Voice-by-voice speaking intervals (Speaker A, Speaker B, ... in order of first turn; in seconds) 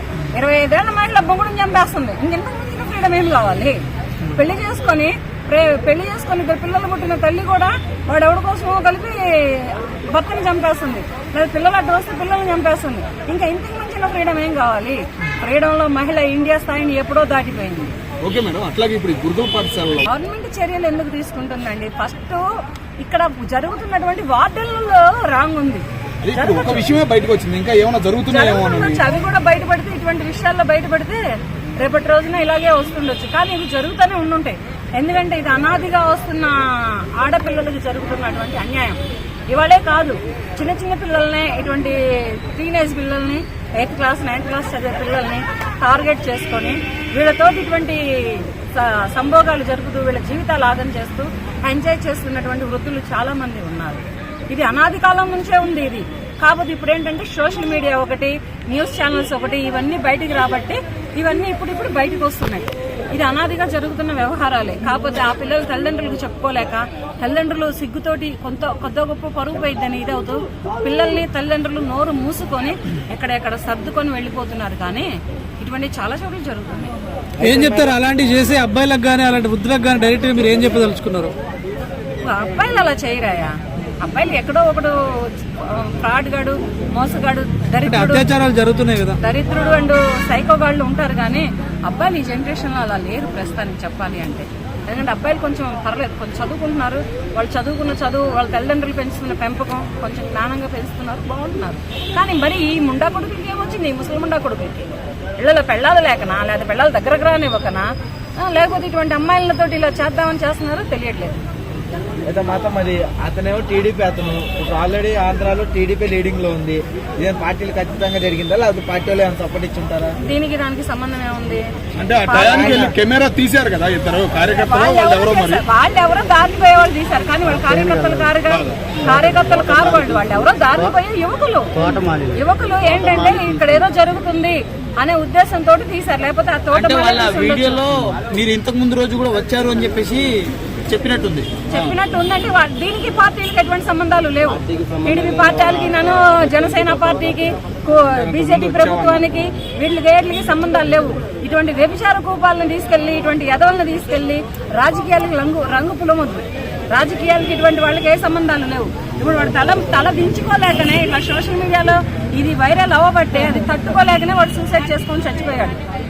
Speaker A: 0.3-17.9, 20.0-22.4, 23.0-26.9, 28.3-31.2, 31.8-76.9, 82.2-88.3, 89.2-111.4, 120.2-121.7, 122.2-122.9, 124.6-137.9, 141.7-165.8
Speaker B: 18.2-20.0, 26.2-29.0, 122.0-125.6, 128.5-128.9, 148.3-149.1
Speaker C: 77.4-78.0, 112.2-120.1, 122.3-122.9
Speaker D: 77.4-81.3, 87.9-89.2
Speaker E: 127.5-128.3, 129.0-130.9, 131.8-133.8, 136.7-141.5